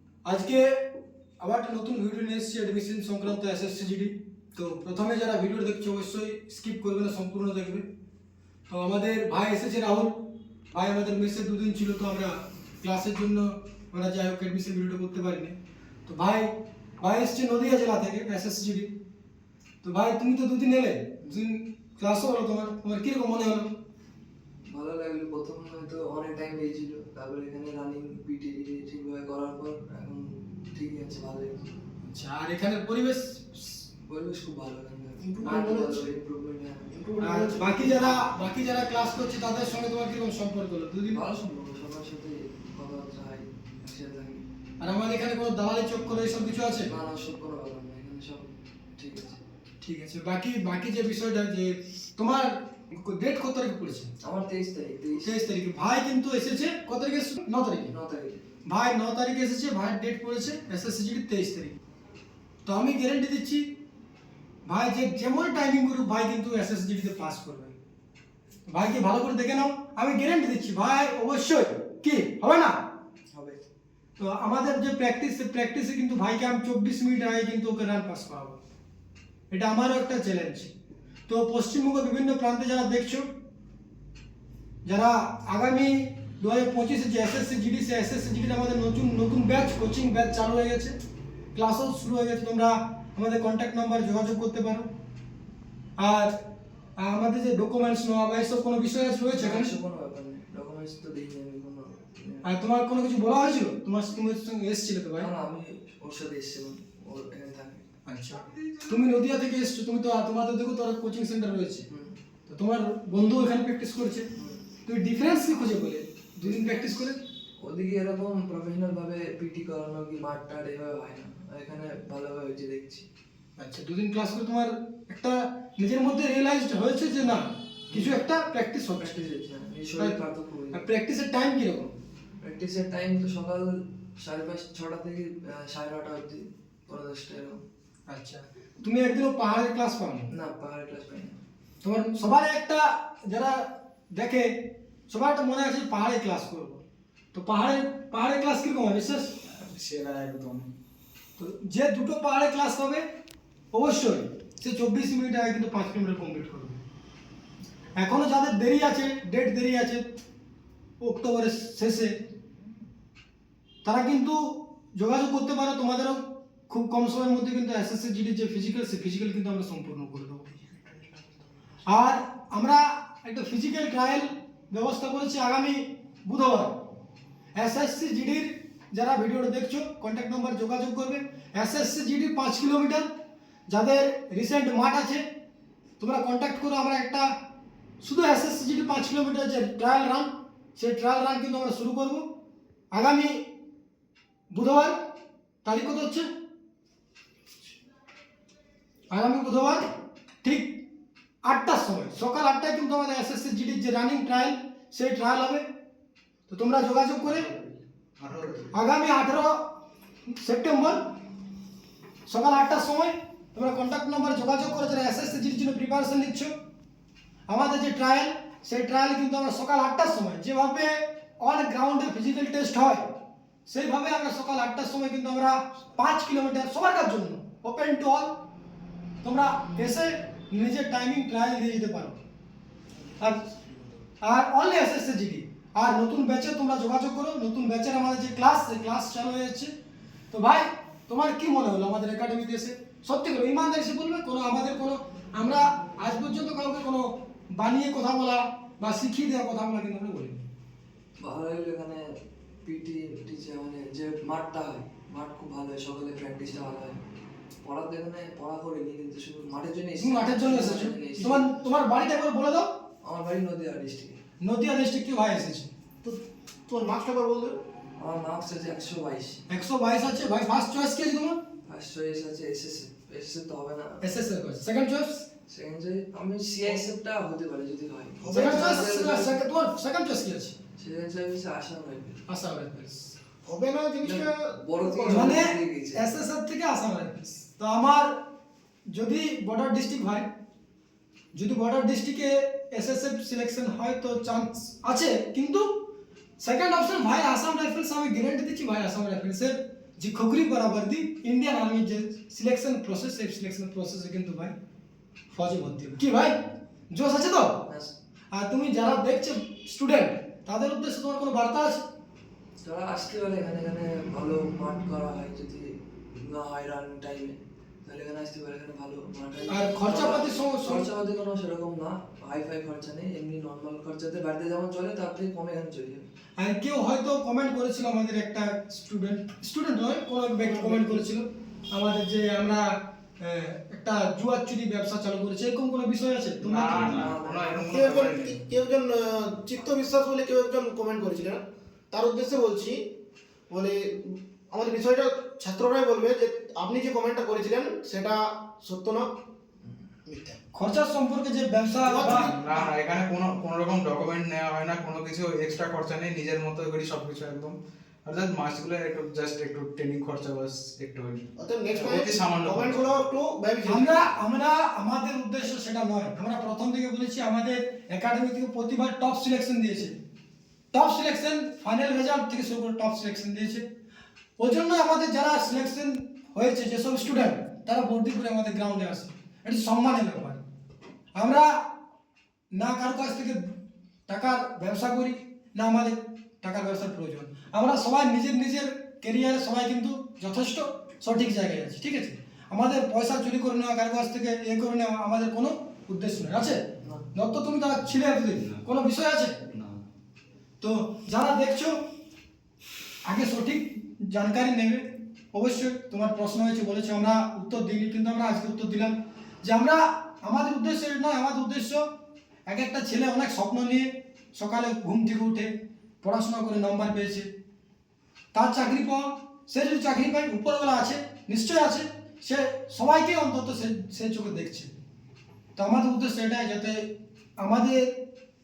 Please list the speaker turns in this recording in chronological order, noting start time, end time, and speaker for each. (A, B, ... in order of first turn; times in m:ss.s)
0:00.2-0:00.8 A
0:01.4-0:07.9 A
0:08.7-0:18.9 A
0:19.8-0:23.7 A
0:24.7-0:31.8 B
0:32.0-0:33.6 A
0:34.0-0:36.9 B
0:35.2-0:36.1 C
0:35.4-0:35.7 A
0:36.9-0:38.3 C
0:37.2-0:41.2 A
0:41.1-0:44.4 B
0:44.8-0:46.9 A
0:46.7-0:49.4 B
0:49.8-0:54.1 A
0:54.2-0:55.3 B
0:55.2-0:57.9 A
0:57.9-0:58.4 B
0:58.6-1:01.8 A
1:02.6-1:03.7 A
1:04.6-1:07.8 A
1:08.7-1:12.8 A
1:13.3-1:13.6 B
1:14.2-1:18.6 A
1:19.5-1:20.7 A
1:21.3-1:23.3 A
1:24.8-1:31.0 A
1:31.5-1:34.9 A
1:36.0-1:36.4 A
1:37.0-1:39.7 A
1:39.3-1:42.5 B
1:42.4-1:45.3 A
1:45.2-1:47.8 B
1:48.1-1:51.9 A
1:51.9-1:52.2 B
1:52.5-1:54.3 A
1:54.4-1:54.6 B
1:54.9-1:57.2 A
1:56.4-2:03.1 B
2:03.6-2:09.2 A
2:07.9-2:08.2 B
2:09.0-2:10.8 B
2:10.7-2:11.9 A
2:12.4-2:17.6 B
2:18.1-2:20.3 A
2:20.3-2:21.4 B
2:21.8-2:29.4 A
2:29.5-2:30.7 D
2:31.4-2:33.1 A
2:33.7-2:36.8 A
2:38.0-2:40.1 A
2:41.0-2:42.2 A
2:43.8-2:50.5 A
2:51.9-2:56.8 A
2:57.5-3:03.1 A
3:03.7-3:05.3 A
3:06.0-3:07.3 A
3:08.0-3:12.3 A
3:12.9-3:13.5 A
3:14.5-3:15.0 A
3:15.6-3:16.3 A
3:19.1-3:19.8 A
3:20.4-3:20.8 A
3:21.4-3:25.7 A
3:26.5-3:27.5 A
3:28.2-3:28.7 D
3:28.7-3:29.7 A
3:30.3-3:31.1 A
3:32.3-3:36.6 A
3:37.5-3:43.0 A
3:43.7-3:48.4 A
3:49.2-3:52.2 A
3:53.4-3:54.0 C
3:54.2-3:59.7 A
4:00.3-4:10.4 A
4:11.2-4:12.1 B
4:12.6-4:17.0 B
4:17.6-4:21.7 B
4:20.0-4:22.7 A
4:23.0-4:24.2 B
4:24.4-4:25.7 A
4:26.0-4:27.6 C
4:28.0-4:29.4 B
4:29.5-4:31.4 A
4:31.6-4:34.0 B
4:34.0-4:35.3 A
4:35.5-4:39.4 B
4:38.2-4:38.9 C
4:38.3-4:40.6 A
4:40.8-4:42.2 B
4:42.3-4:43.1 A
4:43.4-4:45.3 C
4:44.0-4:46.1 B
4:45.1-4:48.2 A
4:48.9-4:50.3 A
4:51.3-4:55.8 A
4:56.4-5:04.6 A
5:05.3-5:06.4 A
5:06.9-5:07.7 A
5:07.7-5:07.9 B
5:08.3-5:11.8 A
5:12.6-5:26.1 B
5:19.5-5:20.9 A
5:26.4-5:37.1 A
5:30.4-5:31.0 C
5:36.4-5:38.4 D
5:36.5-5:38.3 B
5:37.7-5:42.8 C
5:43.5-5:49.1 C
5:50.1-5:50.4 C
5:50.5-5:52.3 A
5:51.8-5:52.7 C
5:52.3-6:03.0 D
6:01.4-6:04.2 C
6:03.6-6:10.0 A
6:10.7-6:13.6 A
6:14.4-6:20.4 A
6:21.2-6:21.6 A
6:22.5-6:23.5 A
6:24.1-6:39.4 A
6:40.6-6:41.8 A
6:43.0-6:51.9 A
6:52.5-6:57.3 A
6:58.3-7:04.7 A
7:05.6-7:08.0 A